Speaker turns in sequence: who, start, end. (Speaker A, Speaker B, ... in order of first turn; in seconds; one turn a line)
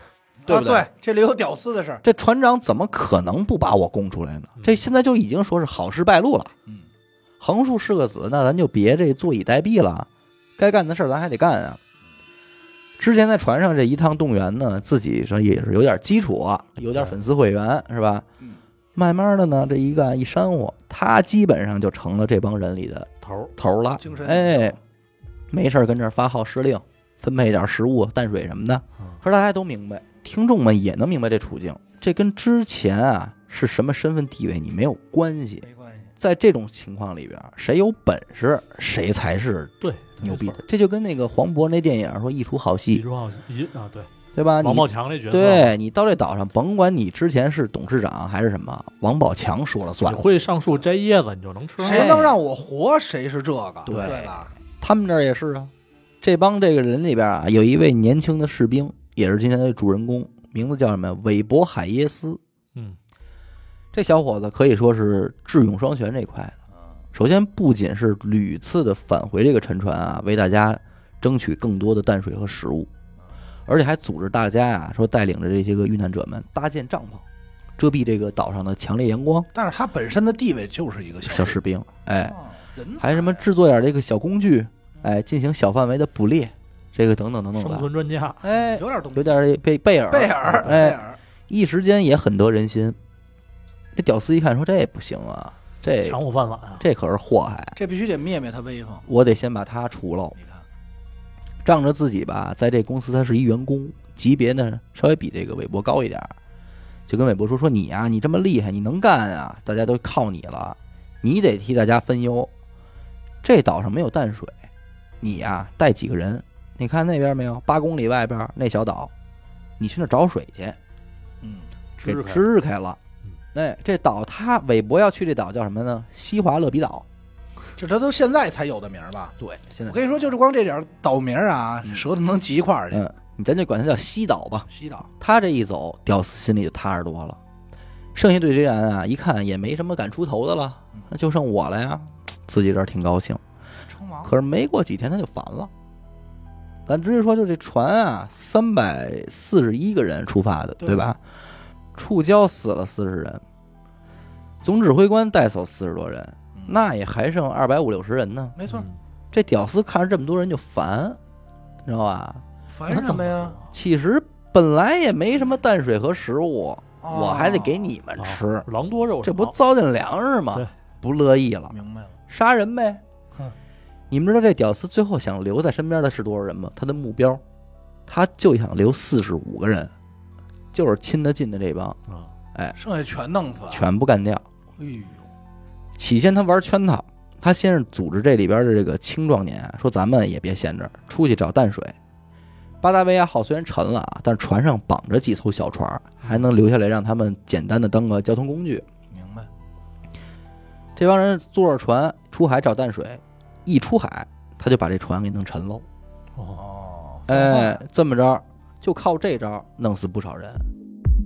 Speaker A: 0.4-2.0
Speaker B: 0.5-0.9
Speaker B: 2.0-6.5
Speaker C: 4.6-4.9
Speaker B: 7.4-11.8
Speaker B: 13.0-18.2
Speaker B: 18.9-24.8
Speaker C: 23.2-23.5
Speaker A: 24.0-24.8
Speaker B: 25.5-35.7
Speaker A: 35.6-36.1
Speaker B: 36.2-43.0
Speaker C: 39.8-40.6
Speaker C: 42.9-45.8
Speaker B: 44.4-50.3
Speaker C: 50.0-52.2
Speaker A: 51.8-54.5
Speaker B: 51.8-52.4
Speaker B: 53.9-55.7
Speaker B: 56.2-62.4
Speaker B: 63.9-66.6
Speaker B: 67.1-72.9
Speaker B: 73.7-77.2
Speaker B: 77.8-79.5
Speaker A: 79.5-81.6
Speaker B: 81.2-82.4
Speaker A: 82.3-83.5
Speaker B: 83.0-87.9
Speaker C: 87.6-88.4
Speaker B: 88.4-93.0
Speaker A: 88.5-89.4
Speaker A: 90.1-91.2
Speaker B: 93.9-96.2
Speaker C: 96.0-96.9
Speaker B: 96.8-97.8
Speaker A: 97.8-99.1
Speaker B: 99.1-100.4
Speaker A: 100.4-100.6
Speaker B: 101.6-106.3
Speaker B: 107.1-112.5
Speaker B: 113.4-114.5
Speaker B: 115.2-119.1
Speaker B: 119.8-120.8
Speaker A: 121.4-121.7
Speaker C: 122.0-122.5
Speaker B: 122.0-123.0
Speaker B: 123.5-127.0
Speaker A: 127.8-129.3
Speaker B: 129.4-130.2
Speaker A: 129.9-133.0
Speaker B: 132.9-137.4
Speaker A: 134.7-135.1
Speaker B: 138.1-143.4
Speaker A: 143.9-144.3
Speaker B: 144.2-145.7
Speaker B: 146.9-151.2
Speaker A: 150.8-151.1
Speaker B: 151.9-153.4
Speaker B: 154.6-158.6
Speaker A: 158.6-158.9
Speaker C: 158.7-159.0
Speaker B: 159.3-161.2
Speaker B: 161.9-162.4
Speaker A: 162.7-163.6
Speaker C: 162.9-163.6
Speaker B: 163.7-168.7
Speaker A: 167.0-167.9
Speaker C: 168.2-169.6
Speaker B: 169.2-171.8
Speaker A: 171.7-172.1
Speaker B: 172.3-173.0
Speaker B: 174.1-177.4
Speaker B: 178.1-179.9
Speaker B: 180.7-182.0
Speaker A: 182.8-183.9
Speaker B: 183.7-184.4
Speaker A: 184.8-185.3
Speaker B: 186.0-191.9
Speaker B: 192.8-198.9
Speaker A: 199.1-199.5
Speaker B: 200.9-205.8
Speaker C: 206.4-206.6
Speaker A: 206.6-207.8
Speaker B: 207.3-210.7